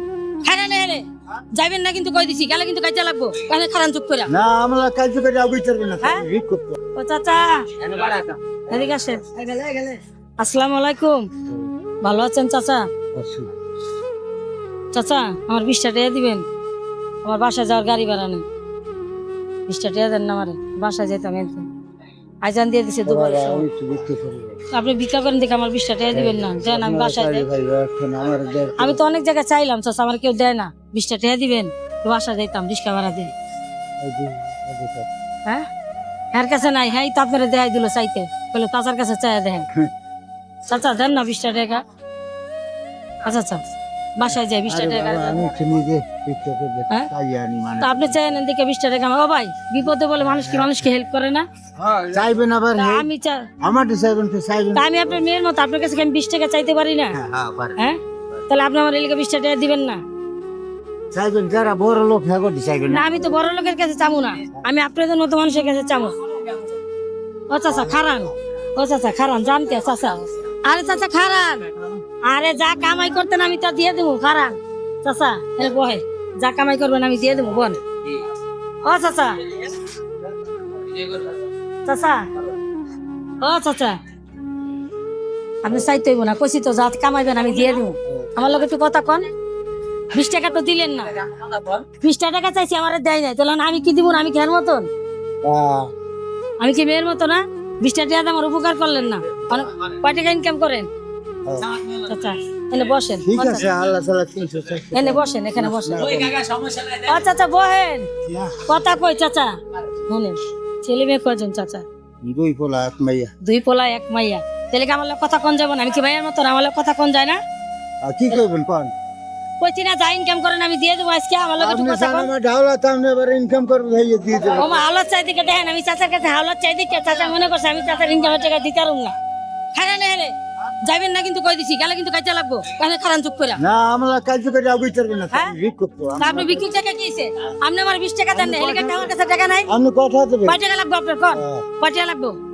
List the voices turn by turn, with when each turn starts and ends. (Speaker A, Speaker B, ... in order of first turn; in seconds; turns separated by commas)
Speaker A: 0.4-1.0, Speaker A: 1.5-4.3, Speaker B: 4.3-6.8, Speaker A: 7.0-7.7, Speaker B: 7.9-8.2, Speaker A: 8.7-11.2, Speaker A: 12.0-12.8, Speaker B: 13.1-13.5, Speaker A: 14.9-16.4, Speaker A: 17.2-18.4, Speaker A: 19.7-21.7, Speaker A: 22.4-23.6, Speaker B: 23.1-24.6, Speaker A: 24.7-27.4, Speaker B: 26.1-29.0, Speaker A: 28.8-33.3, Speaker B: 34.0-35.1, Speaker A: 36.3-39.7, Speaker A: 40.7-41.8, Speaker A: 43.2-43.6, Speaker A: 44.2-45.4, Speaker B: 44.7-48.4, Speaker A: 47.8-51.4, Speaker B: 50.2-50.8, Speaker B: 52.1-53.1, Speaker A: 52.8-53.4, Speaker B: 53.6-55.2, Speaker A: 54.7-57.2, Speaker B: 57.1-57.8, Speaker A: 57.8-60.0, Speaker B: 61.1-63.3, Speaker A: 62.9-66.6, Speaker A: 67.5-71.7, Speaker A: 72.3-77.8, Speaker A: 78.8-79.5, Speaker A: 81.8-82.2, Speaker A: 83.4-83.9, Speaker A: 85.6-89.2, Speaker A: 90.1-91.1, Speaker A: 92.0-94.9, Speaker B: 95.4-95.9, Speaker A: 96.6-100.9, Speaker B: 101.4-101.8, Speaker A: 101.9-103.7, Speaker B: 103.2-106.5, Speaker A: 104.9-106.2, Speaker A: 106.8-108.1, Speaker B: 108.2-108.8, Speaker A: 108.7-109.5, Speaker A: 110.1-111.8, Speaker B: 112.2-113.3, Speaker A: 113.4-117.4, Speaker B: 118.0-118.9, Speaker A: 119.6-122.3, Speaker B: 121.6-124.8, Speaker A: 124.5-129.1, Speaker A: 129.7-130.3, Speaker A: 130.8-133.6, Speaker B: 133.6-136.7, Speaker A: 136.2-139.7, Speaker B: 138.3-139.1, Speaker B: 139.7-140.6, Speaker A: 140.4-142.3, Speaker B: 141.3-141.6